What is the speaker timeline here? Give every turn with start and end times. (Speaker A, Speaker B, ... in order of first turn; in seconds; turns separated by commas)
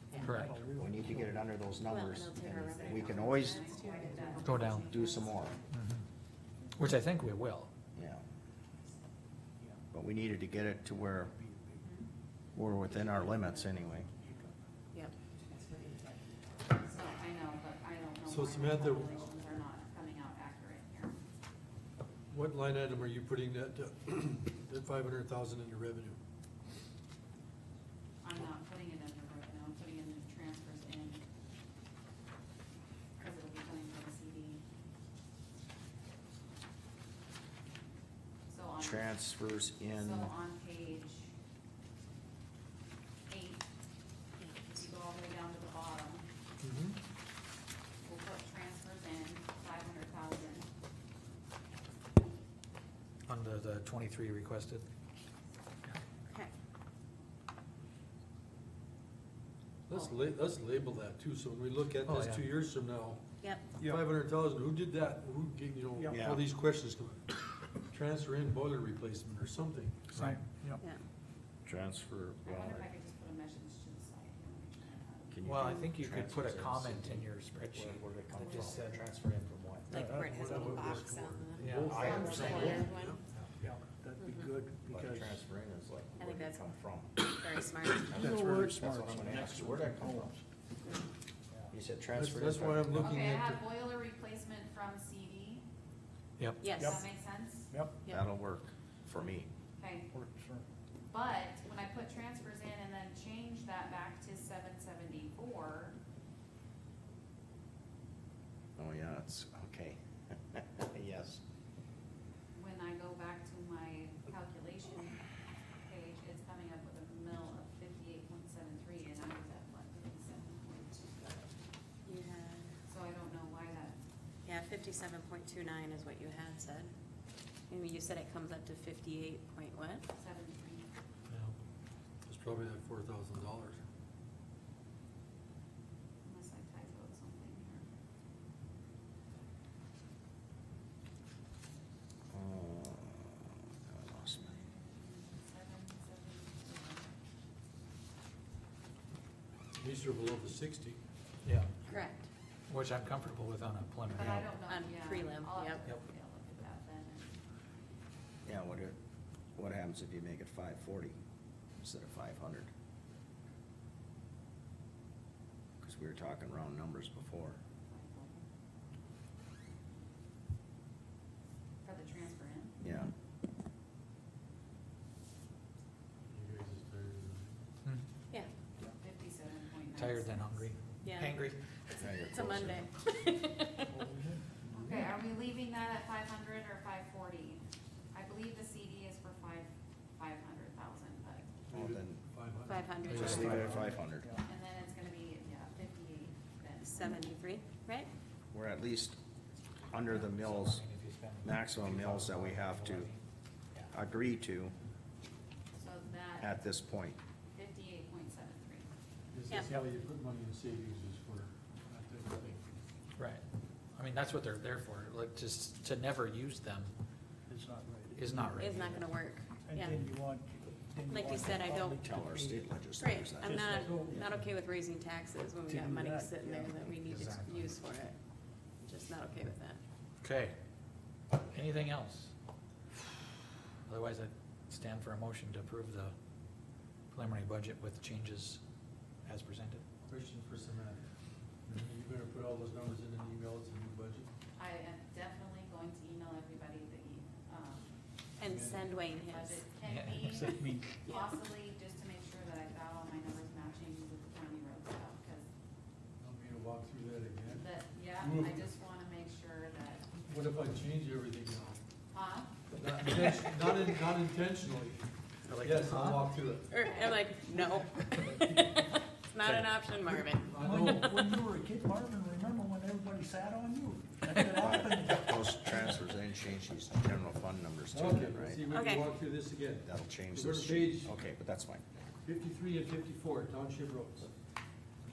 Speaker A: 0.1-1.5, Speaker B: 0.2-0.6, Speaker C: 0.6-3.8, Speaker D: 1.9-5.4, Speaker E: 2.7-4.7, Speaker B: 4.4-5.0, Speaker C: 4.7-5.6, Speaker B: 5.7-6.0, Speaker B: 6.8-7.7, Speaker C: 7.9-8.2, Speaker C: 9.9-11.3, Speaker A: 11.3-11.8, Speaker E: 11.8-12.1, Speaker C: 12.6-14.1, Speaker A: 12.9-14.5, Speaker A: 15.4-16.2, Speaker E: 16.7-21.1, Speaker F: 18.2-19.2, Speaker F: 22.3-26.2, Speaker E: 28.2-31.2, Speaker E: 33.2-34.6, Speaker E: 38.5-39.1, Speaker C: 38.8-40.3, Speaker E: 39.9-41.3, Speaker E: 43.3-43.6, Speaker D: 44.4-44.8, Speaker E: 44.7-46.3, Speaker F: 46.6-47.0, Speaker E: 48.0-50.7, Speaker B: 53.3-54.9, Speaker D: 56.3-56.5, Speaker F: 59.9-63.2, Speaker B: 62.0-62.5, Speaker D: 63.4-63.7, Speaker F: 63.8-67.3, Speaker A: 66.0-66.2, Speaker C: 66.1-66.4, Speaker F: 67.9-70.2, Speaker B: 70.1-70.4, Speaker A: 70.2-70.8, Speaker C: 71.6-72.9, Speaker E: 72.4-75.4, Speaker C: 75.3-79.9, Speaker B: 75.4-79.1, Speaker E: 78.3-78.9, Speaker D: 79.9-83.2, Speaker A: 79.9-80.9, Speaker F: 80.2-83.2, Speaker B: 81.6-82.7, Speaker C: 81.8-82.9, Speaker E: 81.9-82.9, Speaker A: 83.6-85.4, Speaker C: 84.9-87.2, Speaker D: 86.2-86.7, Speaker D: 87.2-88.3, Speaker C: 88.1-90.3, Speaker A: 88.2-90.4, Speaker C: 91.7-93.1, Speaker F: 92.1-93.6, Speaker E: 93.0-95.7, Speaker B: 96.4-96.7, Speaker D: 96.6-97.0, Speaker E: 96.7-97.7, Speaker A: 96.7-98.0, Speaker C: 98.0-99.5, Speaker E: 99.8-100.1, Speaker A: 100.1-100.7, Speaker E: 101.0-106.0, Speaker C: 108.8-111.4, Speaker E: 112.5-115.2, Speaker E: 115.8-121.5, Speaker D: 122.0-122.7, Speaker E: 122.9-124.0, Speaker D: 124.4-126.9, Speaker D: 127.7-130.1, Speaker E: 130.1-130.9, Speaker F: 131.3-131.5, Speaker F: 132.2-133.8, Speaker E: 136.2-137.8, Speaker C: 142.3-144.6, Speaker E: 144.3-147.1, Speaker F: 149.7-151.0, Speaker B: 151.4-151.8, Speaker D: 151.9-152.3, Speaker B: 152.7-154.5, Speaker E: 154.1-157.3, Speaker D: 154.7-155.8, Speaker C: 158.4-159.0, Speaker C: 159.6-161.2, Speaker C: 161.8-162.7, Speaker C: 165.8-167.6, Speaker E: 167.9-168.4, Speaker E: 171.8-172.8, Speaker C: 172.8-173.1, Speaker F: 176.3-177.5, Speaker E: 179.0-180.7, Speaker B: 179.9-182.0, Speaker D: 181.0-181.3, Speaker C: 181.9-182.8, Speaker D: 182.2-183.9, Speaker A: 183.9-185.2, Speaker E: 184.7-187.6, Speaker E: 188.1-191.5, Speaker F: 191.7-193.7, Speaker C: 191.7-192.2, Speaker D: 192.7-193.5, Speaker B: 193.1-193.7, Speaker C: 193.1-194.3, Speaker A: 193.5-194.4, Speaker E: 194.4-197.5, Speaker D: 196.8-198.1, Speaker C: 198.5-199.2, Speaker C: 199.9-200.8, Speaker B: 200.1-203.2, Speaker C: 201.4-203.1, Speaker F: 201.9-202.1, Speaker C: 203.9-204.7, Speaker E: 205.8-206.6, Speaker C: 206.4-207.2, Speaker E: 207.5-208.9, Speaker F: 209.3-212.6, Speaker B: 213.2-213.4, Speaker B: 213.9-216.9, Speaker A: 217.5-219.0, Speaker B: 218.1-219.0, Speaker D: 218.5-220.0, Speaker A: 219.7-222.8, Speaker B: 219.8-220.1, Speaker D: 221.1-222.0, Speaker C: 222.0-224.2, Speaker D: 223.0-228.2, Speaker A: 223.4-224.3, Speaker A: 225.7-226.9, Speaker B: 226.9-227.8, Speaker D: 228.8-229.8, Speaker B: 230.2-230.5, Speaker B: 231.4-232.3, Speaker B: 233.9-236.1, Speaker B: 237.1-238.6, Speaker B: 239.2-239.8, Speaker F: 240.0-241.0, Speaker F: 241.7-244.3, Speaker E: 244.6-248.0, Speaker D: 248.4-249.7, Speaker F: 248.4-248.9, Speaker E: 249.3-255.5, Speaker B: 249.8-250.4, Speaker A: 250.3-250.9, Speaker D: 251.0-251.3, Speaker F: 256.2-258.7, Speaker E: 257.5-260.1, Speaker F: 260.2-261.8, Speaker E: 262.1-262.5, Speaker F: 262.7-266.7, Speaker B: 265.5-266.3, Speaker D: 266.7-271.4, Speaker E: 266.8-267.2, Speaker F: 268.2-268.8, Speaker B: 269.4-269.9, Speaker F: 270.4-271.3, Speaker A: 270.6-275.9, Speaker C: 274.4-278.6, Speaker F: 277.9-281.1, Speaker D: 278.7-279.1, Speaker C: 279.8-282.0, Speaker F: 282.2-284.3